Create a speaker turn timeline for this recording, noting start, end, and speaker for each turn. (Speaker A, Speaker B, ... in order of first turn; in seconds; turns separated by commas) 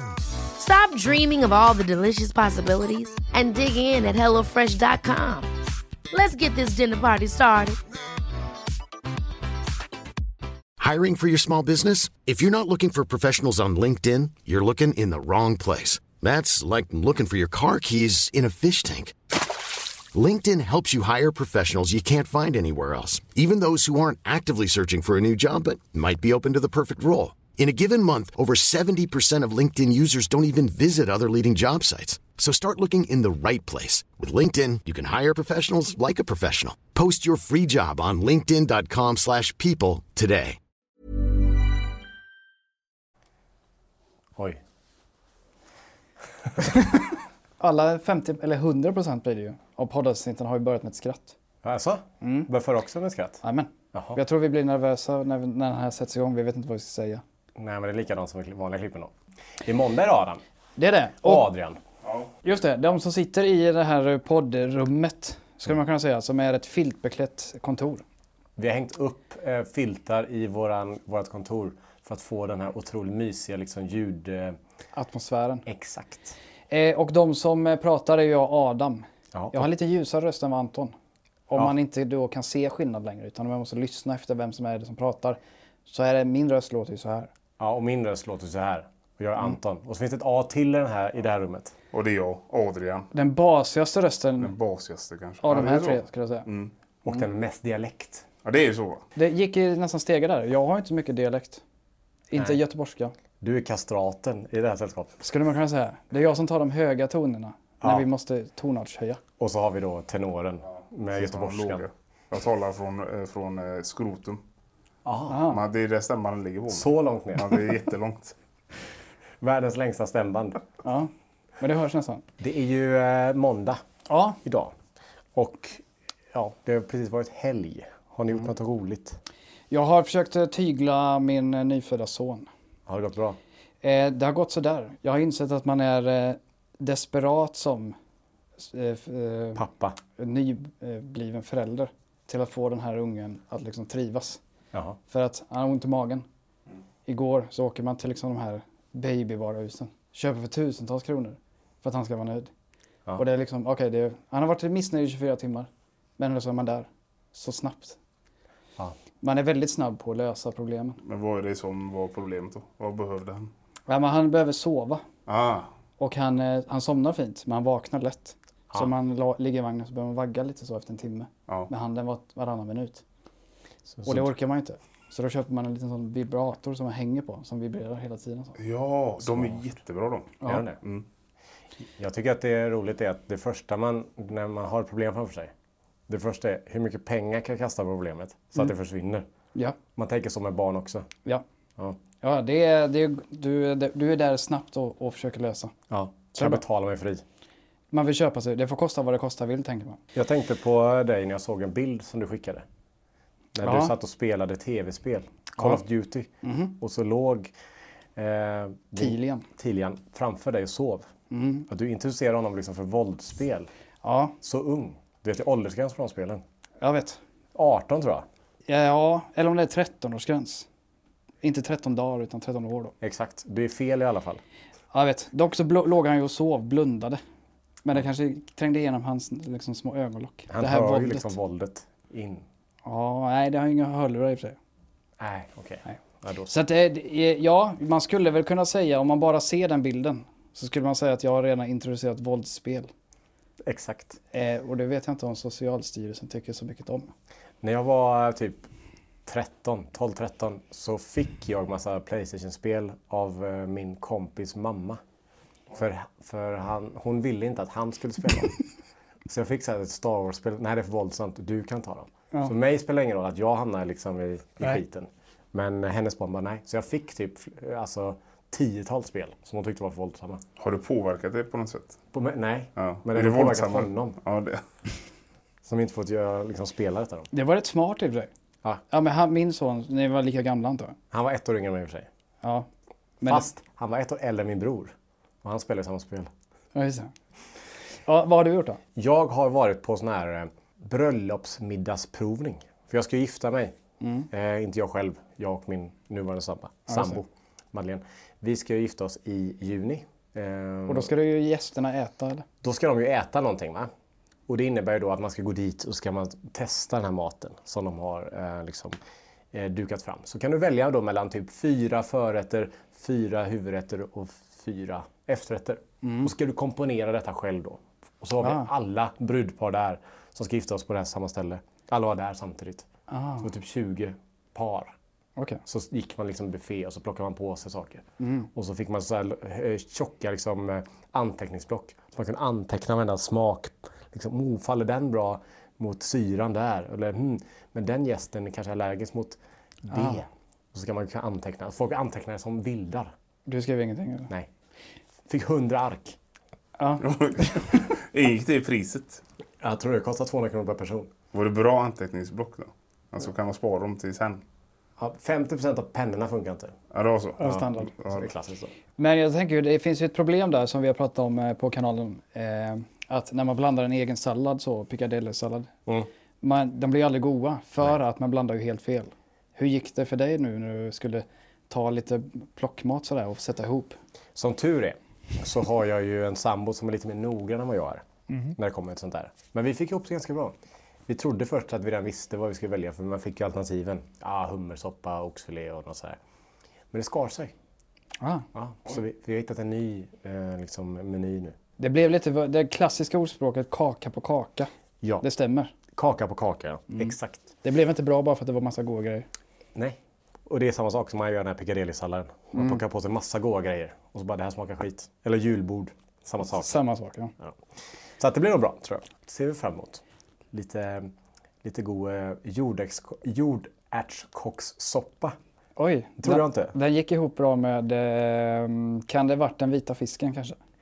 Speaker A: 0.6-5.5, Speaker A: 6.1-7.8, Speaker B: 10.8-19.1, Speaker B: 20.1-40.6, Speaker C: 47.6-51.3, Speaker D: 51.6-53.4, Speaker C: 52.2-52.5, Speaker C: 53.4-57.2, Speaker D: 53.9-54.2, Speaker D: 57.6-60.4, Speaker C: 60.8-61.5, Speaker D: 61.2-61.8, Speaker C: 62.4-68.0, Speaker D: 68.6-74.6, Speaker C: 74.9-75.6, Speaker D: 75.6-76.3, Speaker C: 76.7-80.9, Speaker D: 79.3-79.7, Speaker C: 81.5-87.3, Speaker D: 87.6-91.7, Speaker E: 91.9-93.1, Speaker C: 93.1-94.5, Speaker E: 94.4-96.7, Speaker C: 95.4-96.5, Speaker D: 97.0-98.2, Speaker E: 98.4-99.0, Speaker C: 99.2-101.6, Speaker C: 102.3-103.1, Speaker D: 103.4-105.2, Speaker C: 105.2-109.2, Speaker D: 107.8-108.1, Speaker D: 109.4-111.8, Speaker E: 111.1-114.4, Speaker D: 115.0-115.4, Speaker C: 115.3-115.6, Speaker E: 115.5-118.3, Speaker D: 116.7-117.6, Speaker D: 119.4-120.6, Speaker C: 120.8-122.2, Speaker D: 122.4-123.8, Speaker C: 124.1-124.4, Speaker D: 124.4-124.7, Speaker D: 125.3-129.2, Speaker C: 129.7-132.5, Speaker D: 132.9-133.4, Speaker C: 133.8-137.9, Speaker C: 138.6-139.6, Speaker D: 139.5-140.0, Speaker C: 140.2-144.4, Speaker D: 144.7-145.0, Speaker C: 145.1-146.2, Speaker C: 147.1-152.5, Speaker C: 153.2-158.0, Speaker C: 159.2-161.0, Speaker E: 161.0-163.5, Speaker C: 163.9-165.0, Speaker E: 165.3-165.7, Speaker C: 166.0-173.0, Speaker D: 173.9-174.3, Speaker C: 174.1-178.6, Speaker E: 178.6-181.0, Speaker D: 179.2-179.6, Speaker D: 180.4-180.8, Speaker D: 182.0-185.5, Speaker D: 186.1-189.2, Speaker D: 189.9-191.1, Speaker C: 192.2-195.7, Speaker D: 195.9-197.2, Speaker C: 196.3-196.6, Speaker C: 197.9-200.0, Speaker D: 200.1-202.6, Speaker D: 203.5-207.5, Speaker C: 203.6-203.9, Speaker C: 206.4-206.7, Speaker D: 208.2-211.1, Speaker C: 209.0-209.5, Speaker C: 211.3-211.7, Speaker D: 211.7-213.7, Speaker C: 214.0-214.3, Speaker D: 214.4-216.4, Speaker C: 216.8-217.2, Speaker D: 217.5-218.2, Speaker C: 218.7-220.7, Speaker C: 221.4-222.9, Speaker D: 223.0-224.4, Speaker C: 224.9-227.2, Speaker C: 227.8-231.3, Speaker D: 230.5-232.4, Speaker C: 232.8-234.6, Speaker D: 235.2-236.5, Speaker C: 235.8-242.9, Speaker D: 243.6-244.2, Speaker C: 244.3-247.1, Speaker D: 247.6-248.7, Speaker D: 249.2-255.0, Speaker D: 255.7-258.5, Speaker D: 259.3-270.4, Speaker E: 270.6-272.0, Speaker D: 272.1-274.2, Speaker E: 272.8-274.6, Speaker D: 275.6-277.3, Speaker C: 277.3-278.3, Speaker C: 278.9-280.9, Speaker D: 281.1-282.1, Speaker C: 282.4-282.7, Speaker C: 283.2-283.5, Speaker D: 283.2-286.3, Speaker C: 286.7-287.1, Speaker C: 288.1-288.8, Speaker D: 288.9-293.7, Speaker C: 294.0-294.3, Speaker D: 294.3-301.1, Speaker C: 296.9-297.2, Speaker C: 300.9-302.4, Speaker D: 302.6-303.9, Speaker D: 304.5-308.9, Speaker D: 309.5-322.9, Speaker C: 316.0-316.3, Speaker C: 318.4-318.7, Speaker C: 323.1-323.5, Speaker D: 323.4-324.9, Speaker C: 325.4-325.6, Speaker D: 325.6-339.4, Speaker C: 328.2-328.5, Speaker C: 339.9-340.2, Speaker D: 339.9-343.1, Speaker C: 343.5-344.3, Speaker D: 345.3-346.2, Speaker C: 346.8-347.6, Speaker E: 347.0-349.2, Speaker D: 349.6-351.1, Speaker E: 351.3-354.4, Speaker D: 355.0-356.7, Speaker E: 356.9-357.4, Speaker C: 357.4-357.9, Speaker D: 357.4-358.7, Speaker E: 358.0-358.3, Speaker C: 359.0-365.7, Speaker C: 366.4-373.9, Speaker D: 374.3-378.0, Speaker C: 378.3-378.5, Speaker D: 378.6-386.2, Speaker D: 386.9-387.5, Speaker C: 388.2-388.4, Speaker D: 388.5-391.6, Speaker C: 391.8-394.7, Speaker D: 395.0-395.2, Speaker C: 395.2-395.7, Speaker D: 395.9-397.5, Speaker C: 397.6-399.3, Speaker D: 399.7-406.8, Speaker C: 406.4-407.3, Speaker D: 408.2-411.1, Speaker D: 411.6-415.4, Speaker C: 415.8-420.6, Speaker D: 416.2-416.7